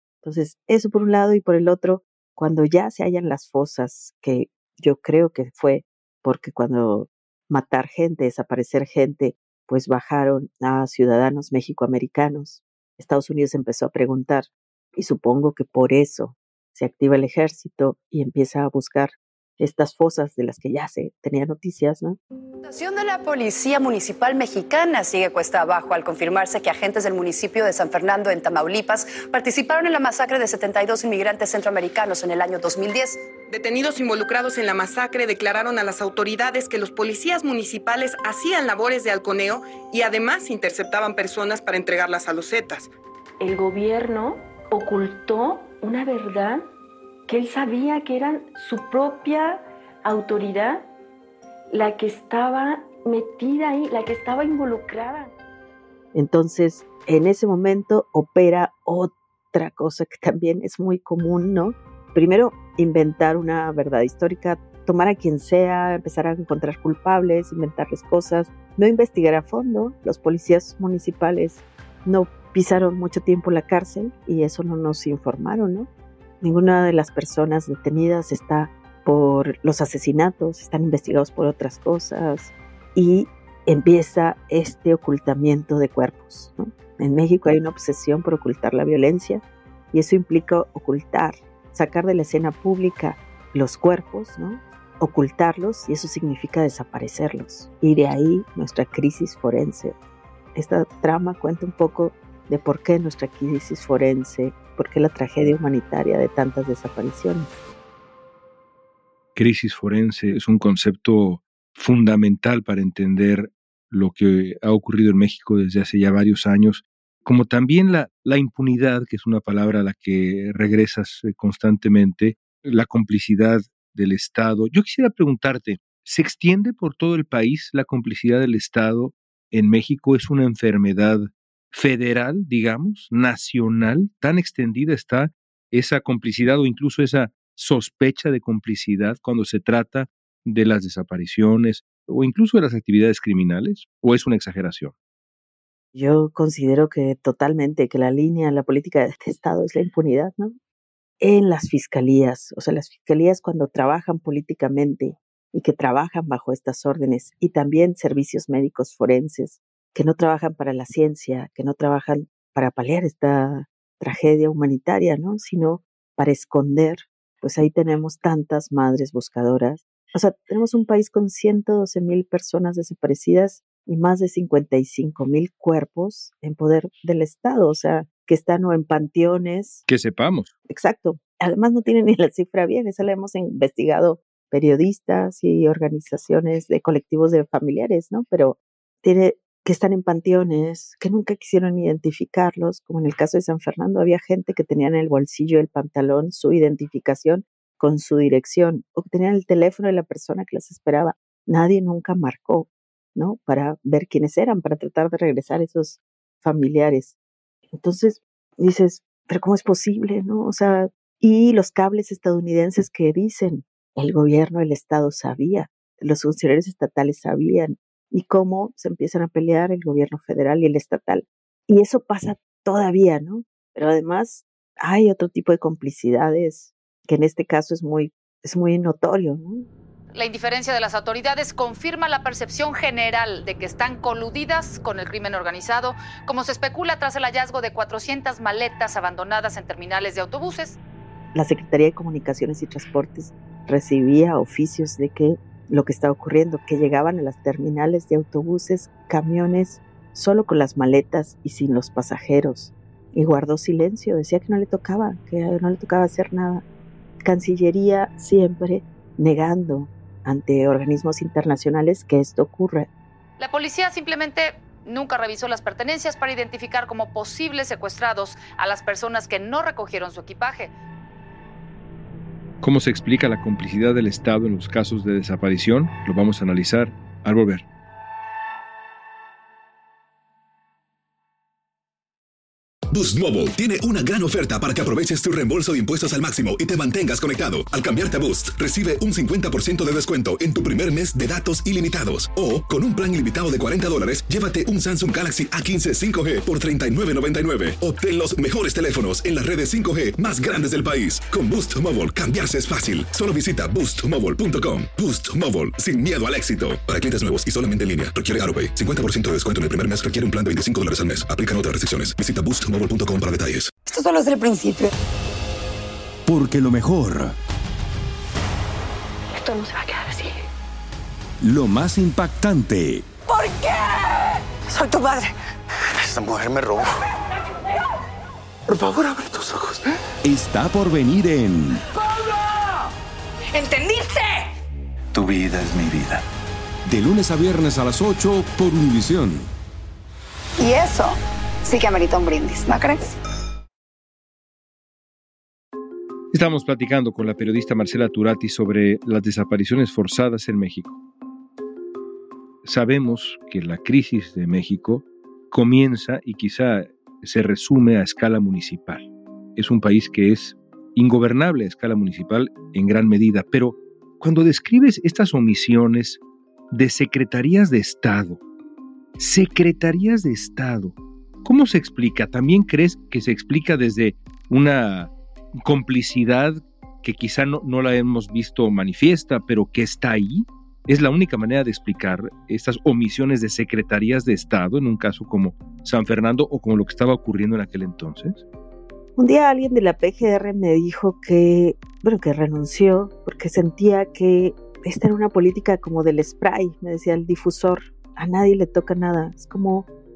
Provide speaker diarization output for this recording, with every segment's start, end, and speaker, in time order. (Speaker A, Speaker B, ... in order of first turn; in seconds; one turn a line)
Speaker A: 0.2-22.2
Speaker B: 22.7-33.2
Speaker C: 33.5-42.9
Speaker D: 43.4-46.7
Speaker D: 47.3-50.9
Speaker D: 51.7-55.3
Speaker A: 56.1-75.9
Speaker A: 76.4-100.0
Speaker A: 100.5-107.5
Speaker E: 109.3-144.9
Speaker A: 145.9-150.5
Speaker A: 151.2-179.8
Speaker E: 179.9-180.5
Speaker A: 180.7-207.2
Speaker A: 207.7-229.7
Speaker F: 230.1-240.8
Speaker A: 241.3-256.6
Speaker A: 257.2-262.9
Speaker F: 263.4-270.7
Speaker E: 272.6-277.6
Speaker G: 282.9-313.7
Speaker H: 313.9-314.9
Speaker I: 316.3-317.4
Speaker D: 319.3-320.4
Speaker I: 321.4-323.1
Speaker H: 323.3-325.3
Speaker J: 326.0-326.9
Speaker J: 328.7-330.0
Speaker I: 330.2-331.8
Speaker J: 335.1-336.2
Speaker I: 336.9-339.5
Speaker H: 340.6-343.1
Speaker E: 346.3-351.0
Speaker E: 352.6-368.4
Speaker E: 369.2-388.4
Speaker A: 389.2-399.9